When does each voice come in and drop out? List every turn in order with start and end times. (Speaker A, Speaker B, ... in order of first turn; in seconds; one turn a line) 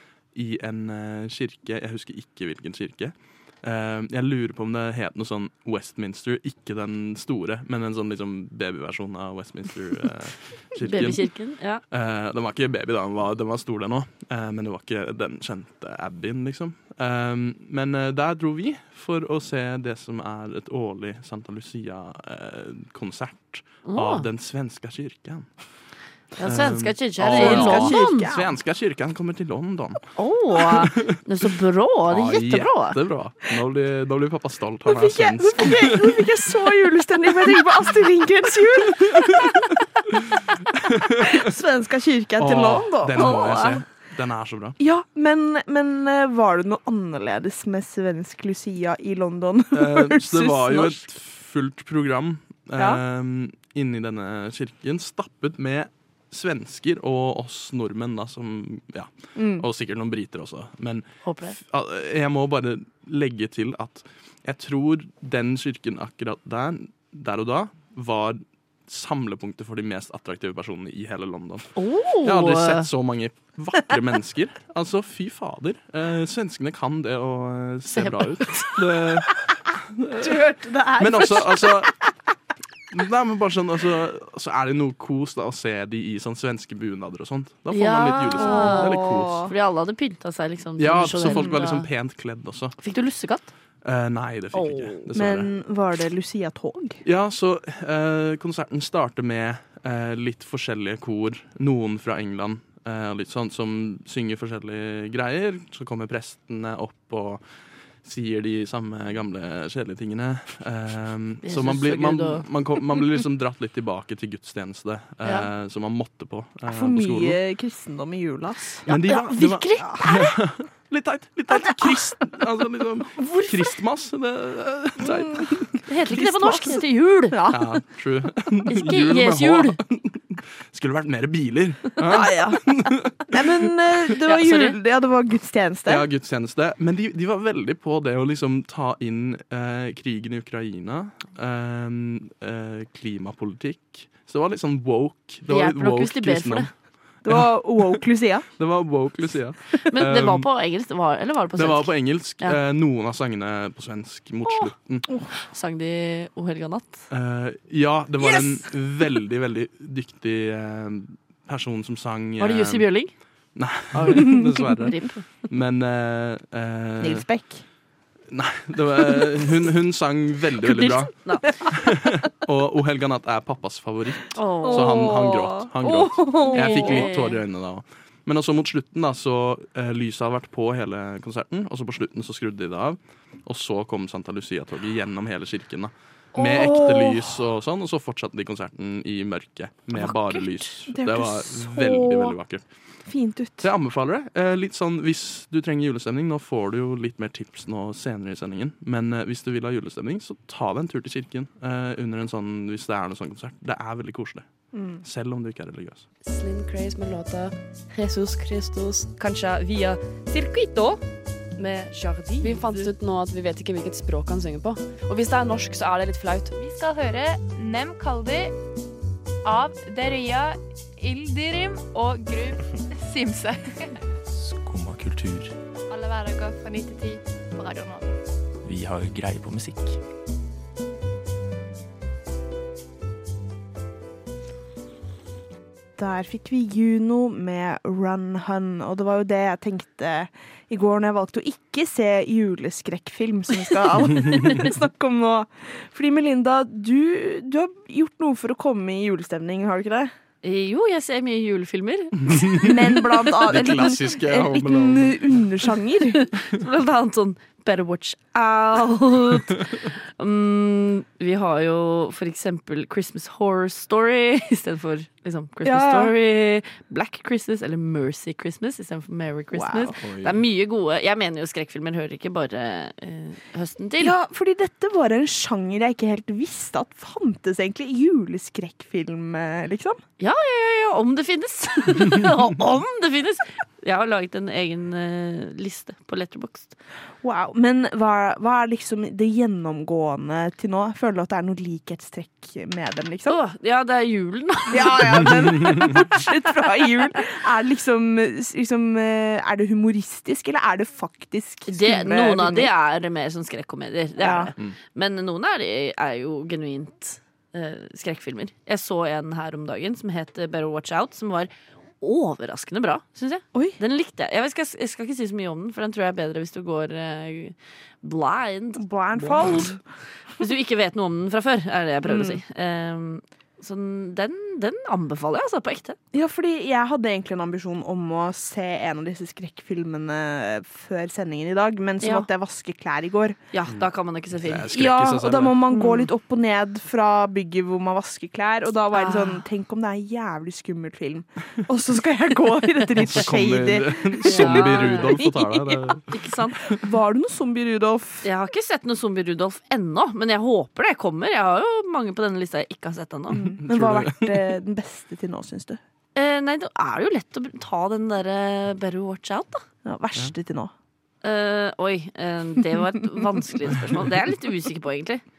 Speaker A: 0.3-11.3
Speaker B: 10.8-11.8
Speaker A: 11.9-25.5
Speaker B: 23.9-24.2
Speaker B: 26.4-28.3
Speaker A: 26.4-30.0
Speaker C: 27.2-28.5
Speaker B: 30.2-33.0
Speaker A: 30.6-31.2
Speaker A: 32.1-36.2
Speaker C: 34.9-39.7
Speaker A: 40.2-41.4
Speaker C: 41.2-43.8
Speaker A: 42.4-44.8
Speaker C: 44.8-51.0
Speaker A: 49.7-71.7
Speaker C: 59.4-59.7
Speaker B: 61.2-61.5
Speaker B: 71.8-72.9
Speaker A: 72.2-79.4
Speaker B: 77.9-78.7
Speaker A: 80.0-80.3
Speaker C: 80.2-81.9
Speaker A: 81.0-81.9
Speaker A: 82.9-89.5
Speaker B: 87.7-91.9
Speaker C: 88.4-89.5
Speaker A: 90.8-92.8
Speaker B: 92.8-93.5
Speaker A: 93.8-95.5
Speaker B: 94.5-95.0
Speaker C: 95.1-97.0
Speaker A: 97.0-107.4
Speaker A: 108.0-117.4
Speaker B: 111.4-112.5
Speaker B: 115.2-115.5
Speaker C: 116.7-118.9
Speaker B: 118.9-120.3
Speaker A: 118.9-125.8
Speaker B: 123.2-123.5
Speaker C: 125.0-127.7
Speaker B: 125.9-127.5
Speaker A: 127.5-133.5
Speaker B: 128.7-129.8
Speaker C: 132.0-136.1
Speaker B: 134.2-134.8
Speaker A: 135.9-146.7
Speaker B: 145.5-146.7
Speaker C: 147.2-148.5
Speaker A: 147.2-147.9
Speaker A: 148.6-150.5
Speaker B: 149.9-152.6
Speaker A: 151.6-155.1
Speaker B: 155.4-157.0
Speaker A: 157.1-162.9
Speaker B: 162.4-163.1
Speaker A: 163.5-167.2
Speaker B: 163.9-165.2
Speaker C: 164.1-164.5
Speaker C: 167.0-167.6
Speaker A: 168.3-192.6
Speaker B: 170.6-171.6
Speaker B: 174.3-175.3
Speaker C: 174.6-177.1
Speaker B: 176.4-177.4
Speaker C: 186.3-187.4
Speaker C: 190.0-192.4
Speaker C: 193.1-193.7
Speaker A: 193.6-204.5
Speaker C: 204.7-205.0
Speaker A: 205.0-206.1
Speaker D: 206.2-209.2
Speaker D: 212.3-216.6
Speaker E: 216.6-218.5
Speaker E: 219.5-223.6
Speaker F: 224.2-225.5
Speaker E: 225.9-228.1
Speaker F: 228.6-230.0
Speaker C: 236.0-250.1
Speaker B: 250.4-252.7
Speaker A: 252.3-252.7
Speaker C: 252.5-256.2
Speaker A: 253.4-255.5
Speaker B: 256.1-274.1
Speaker C: 265.6-266.1
Speaker C: 269.5-270.0
Speaker A: 270.0-270.4
Speaker C: 274.0-280.0
Speaker B: 280.2-286.8
Speaker C: 287.2-293.4
Speaker B: 293.2-295.9
Speaker C: 294.7-302.7
Speaker B: 301.7-319.7
Speaker C: 304.2-304.5
Speaker C: 318.8-319.8
Speaker B: 320.4-326.0
Speaker C: 322.0-322.4
Speaker C: 326.1-333.4
Speaker B: 332.0-332.3
Speaker B: 333.5-334.7
Speaker A: 334.4-335.6
Speaker C: 334.7-346.0
Speaker B: 335.8-336.0
Speaker B: 338.9-339.4
Speaker A: 343.0-346.1
Speaker B: 344.2-345.1
Speaker B: 346.1-346.6
Speaker C: 346.7-348.3
Speaker B: 348.2-353.6
Speaker C: 353.3-355.8
Speaker A: 353.6-354.4
Speaker B: 356.1-359.6
Speaker C: 359.8-360.7
Speaker B: 361.2-365.2